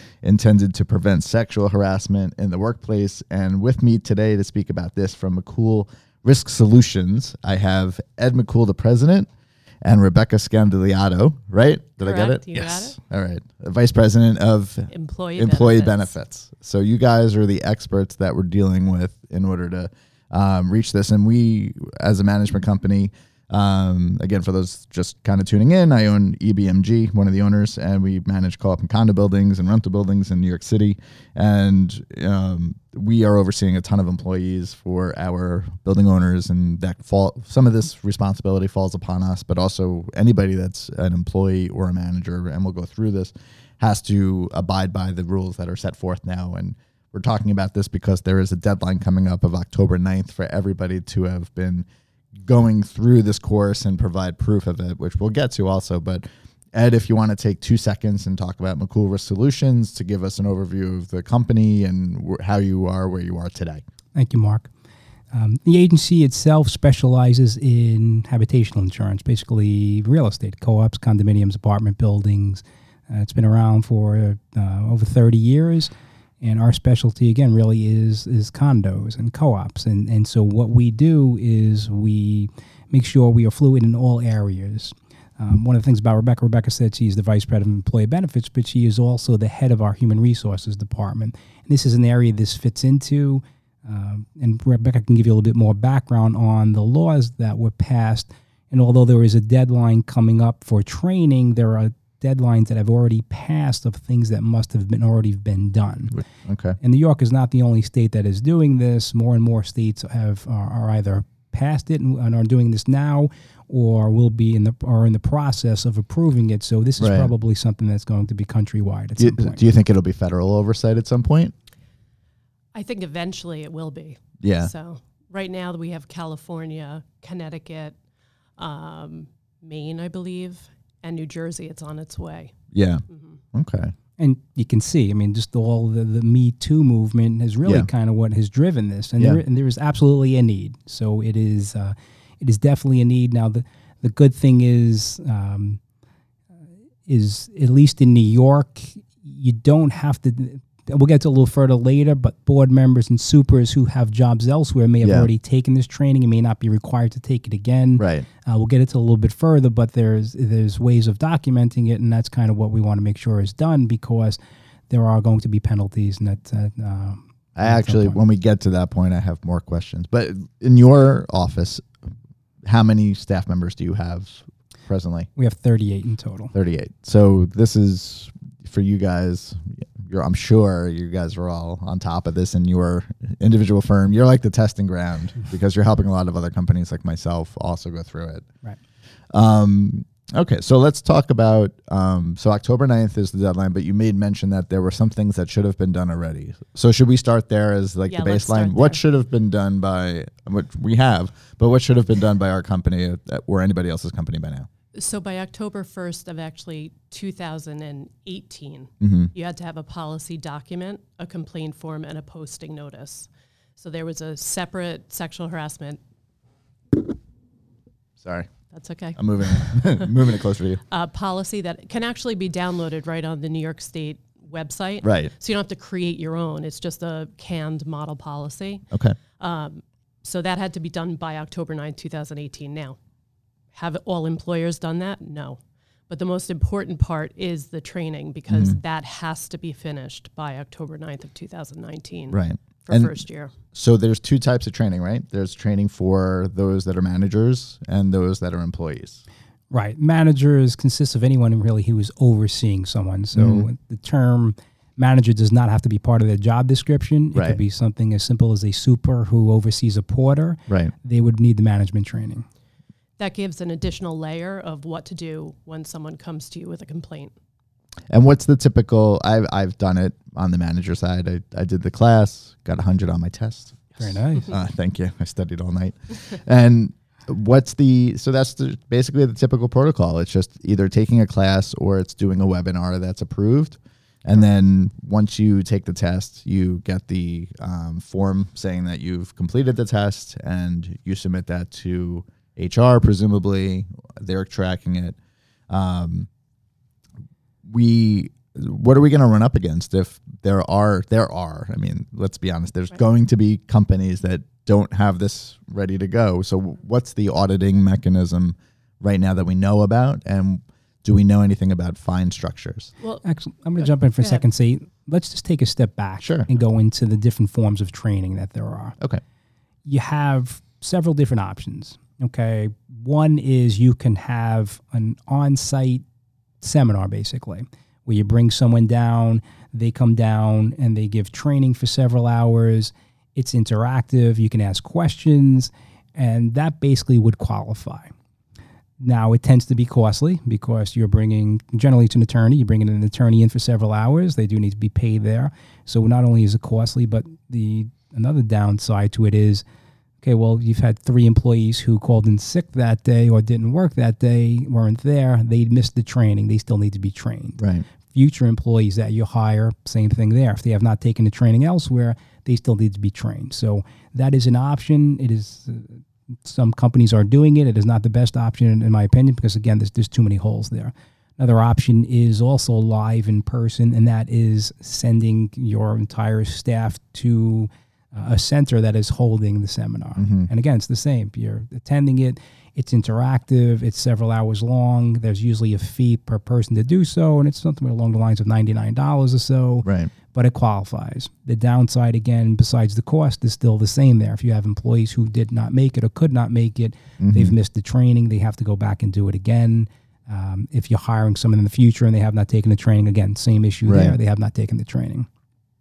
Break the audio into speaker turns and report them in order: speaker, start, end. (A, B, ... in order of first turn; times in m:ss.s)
0:00.2-0:09.3 A
0:09.8-0:51.9 A
0:12.0-0:13.0 B
0:14.9-0:16.1 B
0:52.4-1:03.8 A
1:04.2-1:04.7 C
1:05.3-1:46.2 C
1:46.1-1:46.8 A
1:46.8-1:59.6 C
1:57.0-1:57.3 A
1:59.2-2:01.5 A
2:02.7-2:08.0 B
2:04.4-2:04.7 A
2:08.6-2:12.6 B
2:12.7-2:13.9 A
2:13.1-2:13.4 B
2:14.2-2:25.8 C
2:27.1-2:44.4 C
2:35.0-2:35.3 A
2:38.0-2:38.3 A
2:44.9-2:48.2 C
2:47.6-2:51.9 A
2:52.7-2:55.3 A
2:55.4-2:56.5 C
2:56.5-3:08.5 A
3:09.3-3:24.7 A
3:18.1-3:19.0 B
3:24.9-3:36.0 B
3:29.0-3:29.3 A
3:38.2-3:38.5 A
3:38.7-3:40.1 B
3:39.1-3:40.8 A
3:40.9-3:48.9 B
3:45.0-3:45.3 A
3:48.9-3:49.2 A
3:49.4-3:53.0 B
3:53.7-4:03.5 B
3:58.5-3:58.8 A
4:02.3-4:03.2 A
4:03.7-4:09.2 A
4:09.7-4:22.4 C
4:13.3-4:13.7 A
4:17.4-4:17.6 A
4:20.7-4:20.9 A
4:23.2-4:27.3 B
4:28.1-4:55.2 A
4:34.0-4:34.6 C
4:55.7-4:56.3 A
4:57.7-5:12.9 A
5:13.2-5:19.0 C
5:13.8-5:14.4 B
5:16.2-5:16.5 A
5:19.8-5:26.0 C
5:26.6-5:38.1 C
5:39.0-5:49.6 C
5:50.2-6:45.3 C
5:57.6-5:57.8 A
6:20.2-6:20.5 A
6:29.8-6:30.1 A
6:37.2-6:37.6 A
6:43.9-6:44.2 A